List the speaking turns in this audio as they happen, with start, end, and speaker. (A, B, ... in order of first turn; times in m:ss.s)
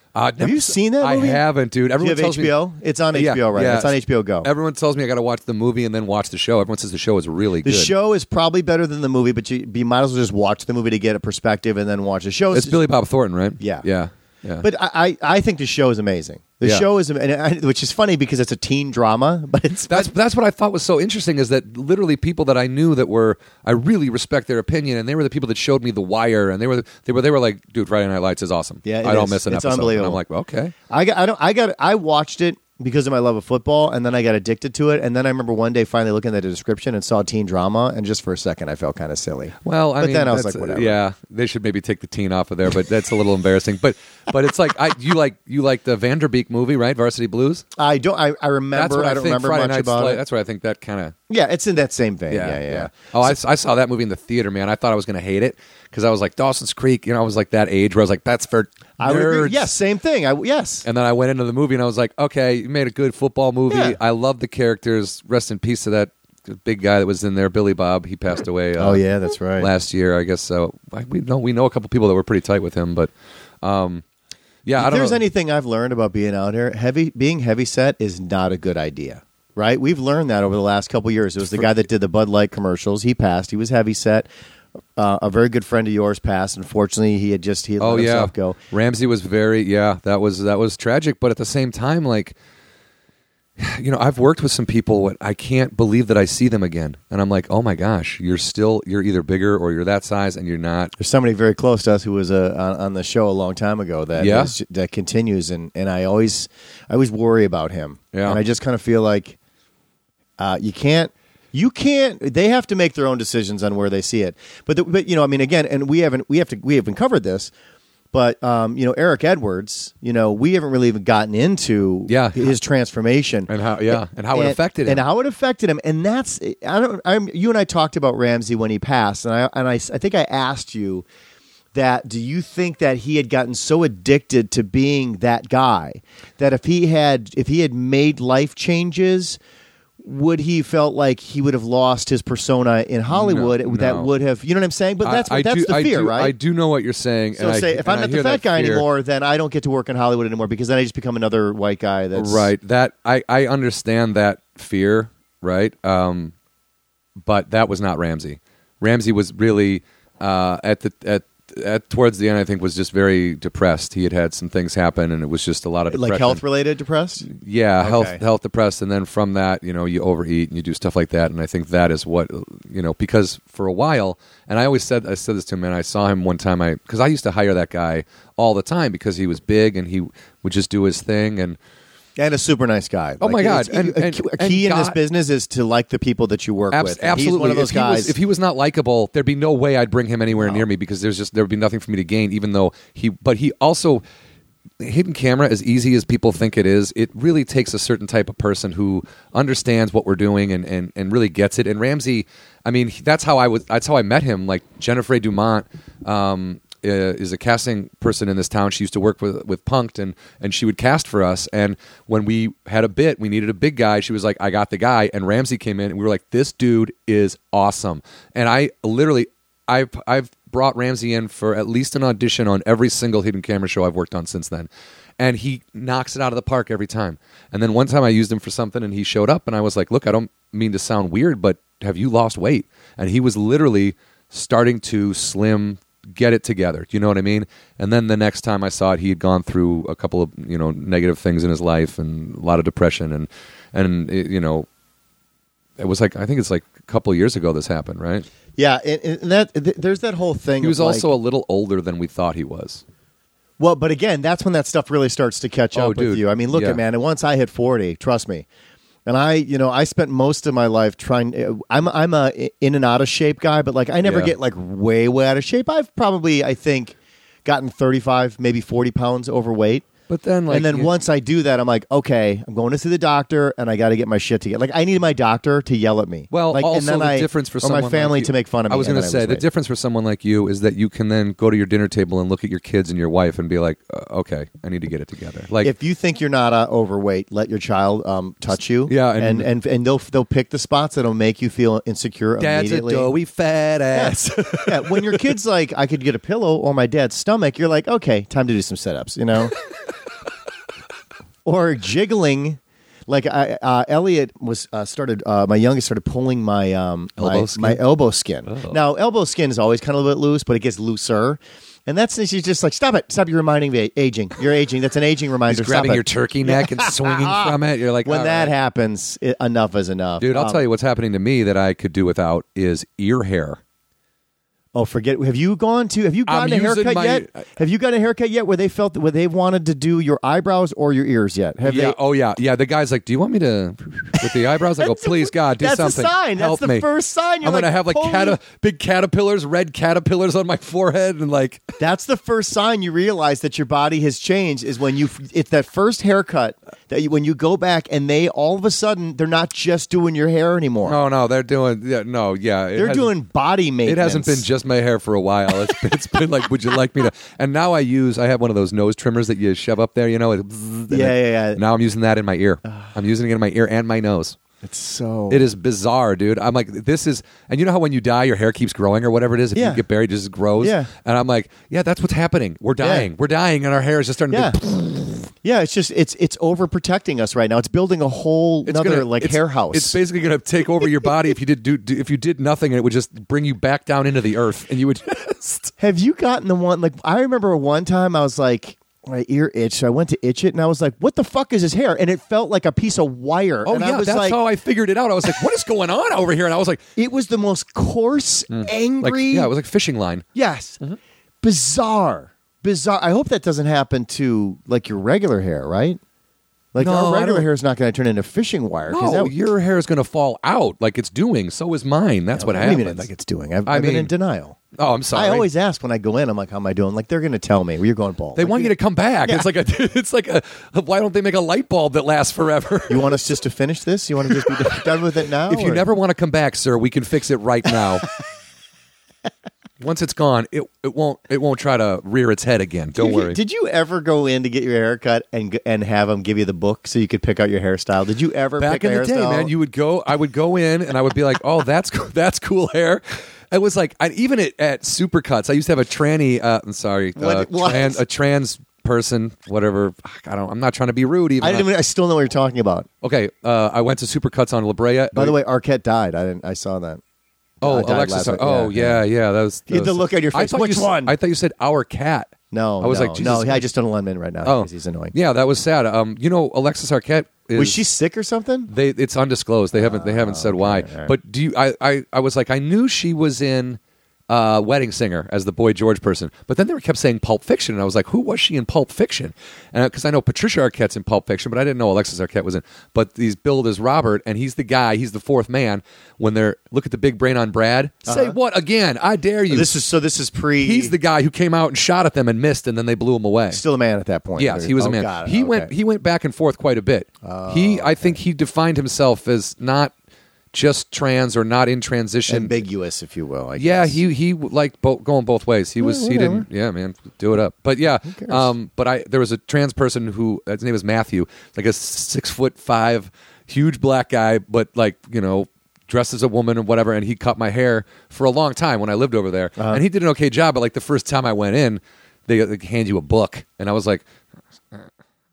0:00.1-0:02.5 A
0:00.4-0:01.4 B
0:02.0-0:04.5 B
0:03.1-0:07.9 A
0:07.6-0:12.8 B
0:12.5-0:14.7 A
0:13.6-0:13.8 B
0:14.6-0:20.1 B
0:19.9-0:30.7 A
0:28.8-0:30.2 B
0:30.9-0:41.0 B
0:39.6-0:47.6 A
0:47.8-0:50.2 B
0:48.7-0:51.1 A
0:51.3-0:53.3 B
0:52.3-0:59.7 A
0:59.0-1:00.8 B
1:00.8-1:09.0 A
1:03.7-1:04.0 B
1:08.8-1:09.7 B
1:09.6-1:14.0 A
1:14.6-1:15.2 A
1:14.8-1:24.3 B
1:25.0-1:28.6 B
1:27.8-1:32.4 A
1:33.6-1:40.9 A
1:41.0-1:49.4 B
1:44.2-1:44.5 A
1:48.1-1:48.4 A
1:50.4-1:57.5 B
1:58.1-2:11.0 B
2:02.1-2:02.5 A
2:03.5-2:05.0 A
2:11.7-2:19.4 B
2:20.0-2:26.3 B
2:23.1-2:24.1 A
2:25.0-2:28.8 A
2:27.4-2:32.5 B
2:32.1-2:36.3 A
2:37.2-2:46.4 A
2:45.9-2:47.2 B
2:47.2-3:01.6 A
2:47.8-2:48.2 B
3:02.2-3:08.1 B
3:03.2-3:05.0 A
3:06.7-3:14.0 A
3:10.3-3:10.6 B
3:14.8-4:04.7 A
4:05.8-4:08.3 A
4:08.6-4:11.1 B
4:10.6-4:12.8 A
4:13.6-4:18.4 B
4:15.7-4:16.8 A
4:19.0-4:29.9 B
4:24.0-4:24.3 A
4:30.1-4:30.9 A
4:30.5-4:39.4 B
4:36.3-4:45.7 A
4:45.6-4:53.1 B
4:48.9-4:49.5 A
4:52.4-4:55.3 A
4:53.9-4:59.5 B
5:01.4-5:20.6 B
5:07.2-5:07.8 A
5:08.5-5:08.8 A
5:15.5-5:18.5 A
5:20.2-5:23.6 A
5:24.7-5:32.0 B
5:26.3-5:27.4 A
5:31.6-5:36.9 A
5:34.2-5:38.4 B
5:37.4-5:41.7 A
5:41.8-5:51.0 B
5:50.8-5:53.1 A
5:52.8-5:54.4 B
5:53.8-6:04.4 A
6:00.9-6:01.6 B
6:04.6-6:05.4 B
6:05.3-6:15.2 A
6:09.5-6:09.8 B
6:10.6-6:10.9 B
6:12.8-6:13.1 B
6:14.3-6:14.6 B
6:15.3-6:20.0 B
6:18.6-6:25.7 A
6:25.8-6:34.4 B
6:33.6-6:36.8 A
6:37.0-6:39.5 B
6:38.5-6:40.2 A
6:40.3-6:40.8 B
6:41.4-6:46.0 B
6:46.7-6:49.3 B
6:46.8-6:47.4 A
6:48.9-6:53.1 A
6:52.3-6:54.6 B
6:53.7-6:54.1 A
6:54.7-6:55.5 A
6:55.1-6:58.7 B
6:58.4-7:03.2 A
7:02.9-7:05.8 B
7:05.5-7:08.1 A
7:09.8-7:13.4 A
7:13.0-7:19.5 B
7:18.6-7:31.7 A
7:27.2-7:28.0 B
7:31.4-7:32.9 B
7:33.0-7:35.4 A
7:35.1-7:37.0 B
7:37.6-7:39.0 B
7:37.6-7:43.6 A
7:39.7-7:41.1 B
7:42.5-7:45.1 B
7:44.4-7:47.8 A
7:47.6-7:48.7 B
7:48.7-8:09.7 A
7:49.7-7:51.1 B
8:08.0-8:08.4 B
8:09.5-8:11.0 B
8:10.6-8:13.6 A
8:13.5-8:15.7 B
8:14.4-8:19.9 A
8:17.2-8:18.2 B
8:20.5-8:22.6 A
8:22.3-8:24.0 B
8:23.6-8:44.0 A
8:25.8-8:26.5 B
8:28.0-8:28.5 B
8:39.6-8:39.8 B